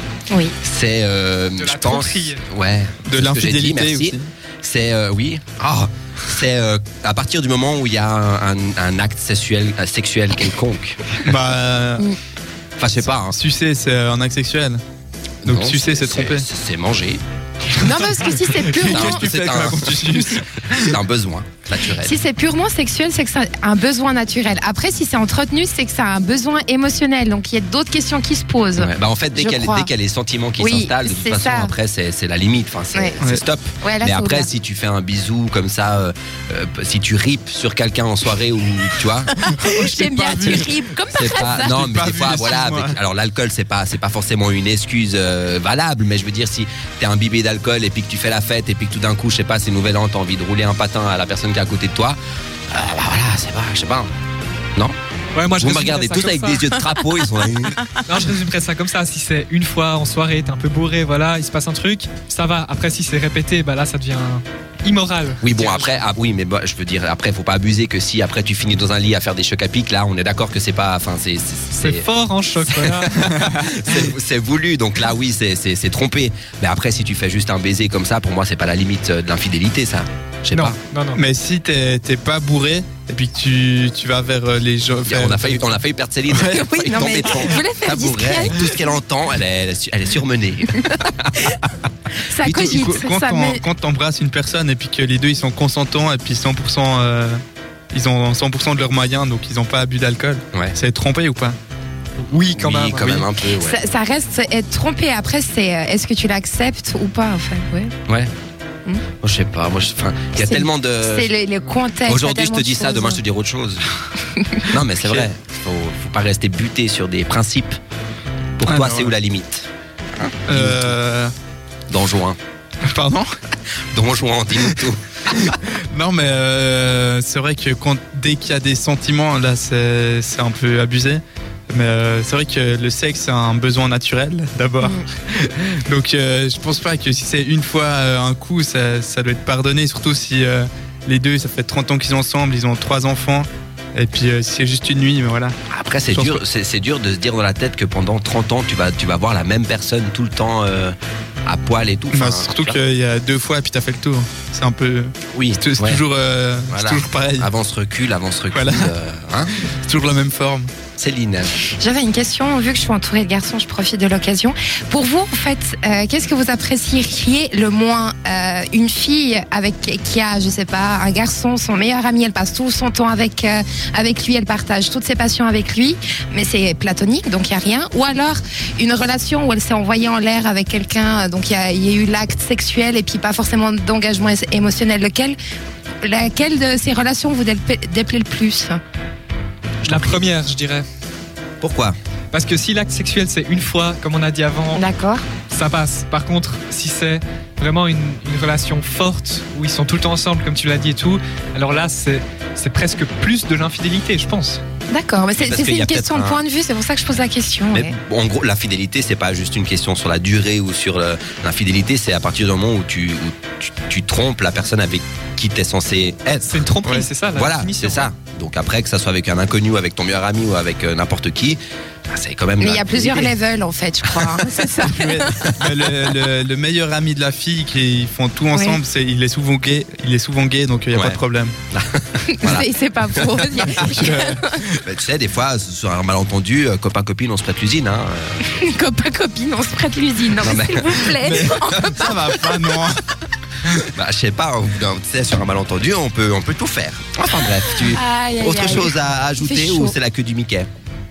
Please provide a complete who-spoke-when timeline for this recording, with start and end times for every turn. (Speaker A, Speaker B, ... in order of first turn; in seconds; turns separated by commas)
Speaker A: 0.3-0.6, Speaker B: 0.6-11.3, Speaker C: 1.6-2.4, Speaker D: 3.0-4.3, Speaker D: 11.2-12.1, Speaker B: 12.8-13.4, Speaker D: 13.2-14.8, Speaker D: 15.4-16.5, Speaker B: 15.4-17.2, Speaker A: 17.7-19.4, Speaker D: 17.8-20.9, Speaker B: 18.8-22.2, Speaker A: 21.9-29.9, Speaker B: 28.8-39.3, Speaker A: 30.6-31.7, Speaker A: 32.9-33.2, Speaker A: 33.8-34.5, Speaker D: 39.4-40.8, Speaker A: 39.4-41.8, Speaker B: 40.4-52.2, Speaker D: 41.3-43.0, Speaker B: 52.7-54.1, Speaker C: 55.3-56.7, Speaker B: 55.5-57.9, Speaker C: 58.0-66.0, Speaker B: 65.4-72.1, Speaker C: 71.7-73.2, Speaker B: 72.7-80.8, Speaker D: 73.2-73.7, Speaker C: 80.5-81.2, Speaker D: 81.1-85.7, Speaker B: 85.1-91.6, Speaker A: 86.3-89.0, Speaker A: 92.2-93.6, Speaker D: 92.4-97.4, Speaker B: 92.5-92.9, Speaker D: 97.9-101.6, Speaker C: 102.2-103.3, Speaker B: 102.6-103.8, Speaker A: 103.6-107.9, Speaker B: 108.1-108.3, Speaker B: 109.2-111.3, Speaker A: 110.4-113.2, Speaker B: 112.1-113.9, Speaker A: 114.3-114.7, Speaker B: 114.6-117.8, Speaker B: 118.6-120.9, Speaker D: 118.6-119.1, Speaker D: 120.5-121.3, Speaker B: 121.9-122.4, Speaker D: 122.8-123.3, Speaker B: 123.9-125.5, Speaker D: 124.6-145.6, Speaker A: 134.8-135.1, Speaker B: 145.7-152.8, Speaker D: 146.1-146.4, Speaker D: 152.1-157.5, Speaker B: 155.3-156.0, Speaker B: 156.7-159.6, Speaker D: 158.5-158.9, Speaker D: 159.6-160.7, Speaker B: 160.9-161.5, Speaker A: 161.6-185.4, Speaker A: 186.0-188.8, Speaker B: 189.8-190.2, Speaker C: 189.8-190.9, Speaker B: 191.6-191.9, Speaker C: 192.3-194.8, Speaker A: 194.7-195.2, Speaker C: 195.5-204.6, Speaker A: 204.9-207.9, Speaker B: 205.4-206.4, Speaker B: 207.7-216.7, Speaker C: 216.4-218.1, Speaker B: 217.3-223.4, Speaker A: 222.6-225.6, Speaker B: 224.1-224.5, Speaker D: 224.8-231.6, Speaker A: 228.5-228.8, Speaker B: 230.9-231.2, Speaker B: 231.7-234.1, Speaker A: 232.2-234.7, Speaker D: 233.8-234.6, Speaker B: 234.7-238.6, Speaker A: 238.4-242.8, Speaker B: 240.4-241.1, Speaker D: 241.1-243.0, Speaker B: 241.6-242.0, Speaker B: 243.9-250.7, Speaker A: 247.4-249.9